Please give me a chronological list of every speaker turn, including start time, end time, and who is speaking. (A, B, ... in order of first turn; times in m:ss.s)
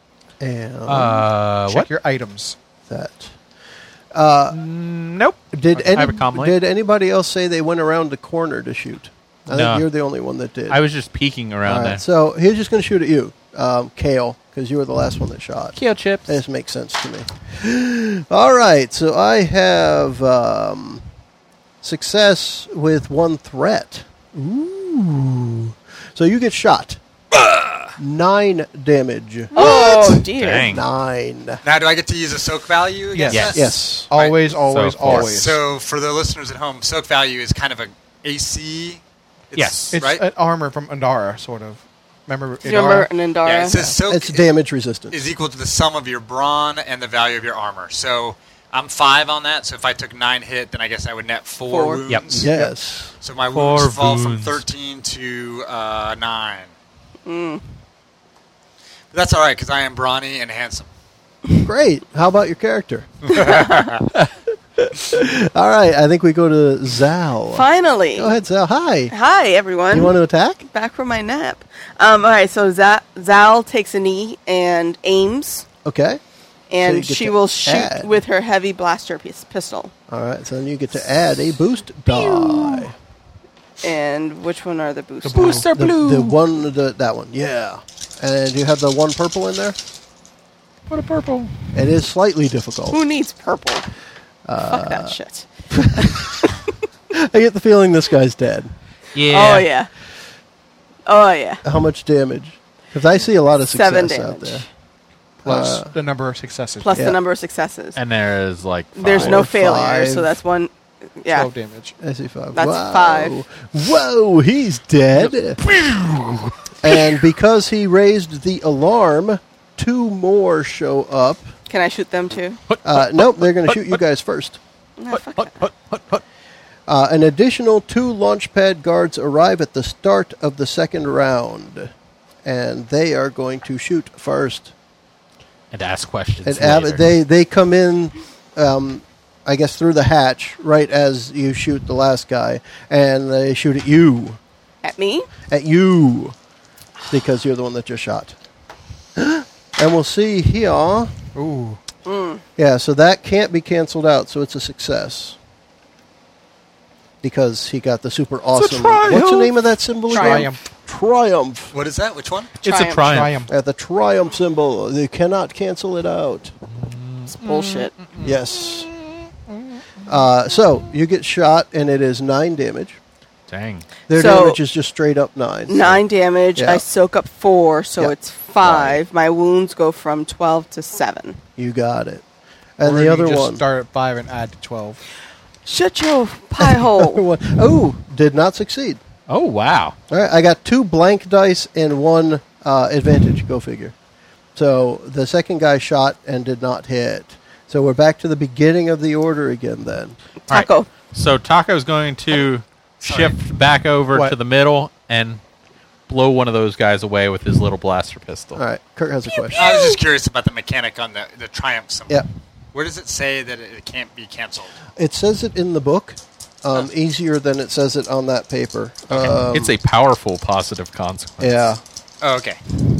0:00.4-0:01.3 A
0:00.9-0:01.9 B
0:01.7-0:02.6 C
0:02.9-0:03.3 A
0:04.1-0:04.6 A
0:04.5-0:06.6 B
0:05.5-0:10.8 A
0:09.5-0:09.8 B
0:10.7-0:12.0 B
0:11.6-0:21.0 A
0:15.8-0:16.3 B
0:21.8-0:27.0 A
0:27.3-0:27.9 D
0:28.0-0:31.6 A
0:29.5-0:30.8 E
0:29.7-0:30.2 D
0:30.2-0:30.8 B
0:31.6-0:34.4 D
0:33.1-0:35.6 C
0:33.3-0:33.7 B
0:33.5-0:34.1 A
0:34.6-0:35.3 B
0:35.0-0:40.2 D
0:39.5-0:40.0 B
0:39.9-0:43.1 C
0:42.6-0:43.9 E
0:43.4-0:44.5 D
0:44.0-0:45.3 A
0:45.1-0:52.5 D
0:51.7-0:52.0 E
0:52.1-0:52.5 B
0:52.3-0:53.1 A
0:53.2-0:56.7 D
0:53.5-0:54.6 B
0:57.2-0:57.6 E
0:59.1-1:00.9 D
1:01.6-1:03.4 A
1:03.2-1:04.0 D
1:04.8-1:09.1 A
1:07.5-1:08.3 E
1:09.1-1:10.1 E
1:09.9-1:10.6 A
1:10.6-1:15.6 E
1:15.8-1:16.2 A
1:16.7-1:19.9 E
1:16.8-1:18.2 A
1:20.1-1:22.9 A
1:22.2-1:22.8 B
1:23.8-1:25.8 E
1:25.2-1:25.7 C
1:25.4-1:26.3 B
1:25.7-1:29.8 A
1:30.9-1:31.7 B
1:31.7-1:33.0 A
1:32.9-1:33.9 E
1:34.5-1:35.2 A
1:34.7-1:36.7 E
1:35.7-1:36.4 A
1:37.1-1:38.7 A
1:39.1-1:39.7 B
1:39.3-1:39.9 E
1:41.0-1:41.6 E
1:41.6-1:44.6 A
1:43.7-1:44.6 E
1:45.4-1:47.0 C
1:45.4-1:45.9 A
1:46.8-1:48.0 E
1:46.9-1:47.2 A
1:47.9-1:49.5 B
1:49.0-1:51.5 E
1:49.1-1:50.4 A
1:51.3-1:51.9 C
1:52.0-1:55.6 A
1:52.5-1:53.3 E
1:55.3-1:57.0 B
1:56.8-2:01.5 A
2:01.7-2:02.6 E
2:02.7-2:04.0 B
2:02.8-2:04.6 A
2:05.0-2:05.5 E
2:05.1-2:06.2 B
2:06.9-2:11.9 A
2:12.4-2:14.7 A
2:15.7-2:17.0 B
2:16.4-2:24.4 A
2:24.8-2:25.3 E
2:25.5-2:26.3 A
2:27.1-2:28.4 A
2:29.2-2:31.1 A
2:31.3-2:31.8 C
2:32.0-2:32.4 E
2:32.6-2:35.4 A
2:37.2-2:41.7 A
2:38.6-2:39.5 C
2:40.1-2:40.6 C
2:40.1-2:40.5 E
2:41.7-2:42.6 D
2:42.6-2:43.4 B
2:42.6-2:43.2 E
2:43.0-2:43.5 C
2:43.5-2:46.5 A
2:46.7-2:48.3 B
2:47.3-2:47.9 E
2:48.2-2:48.9 A
2:50.0-2:53.0 A
2:53.5-2:54.0 B
2:54.1-2:56.0 A
2:54.1-2:54.6 E
2:55.7-3:01.4 E
2:56.6-2:56.8 A
2:58.6-2:59.0 B
3:01.6-3:02.2 A
3:02.8-3:03.6 A
3:02.8-3:05.0 C
3:05.6-3:07.2 E
3:06.6-3:09.0 A
3:09.3-3:10.0 B
3:10.1-3:13.9 A
3:14.6-3:20.2 A
3:20.5-3:20.9 E
3:20.5-3:25.4 B
3:23.0-3:23.4 D
3:26.1-3:28.6 B
3:28.6-3:29.6 A
3:29.3-3:30.0 B
3:29.5-3:34.7 D
3:35.0-3:39.7 A
3:39.1-3:39.4 D
3:39.4-3:41.5 B
3:41.4-3:41.8 A
3:42.2-3:42.6 D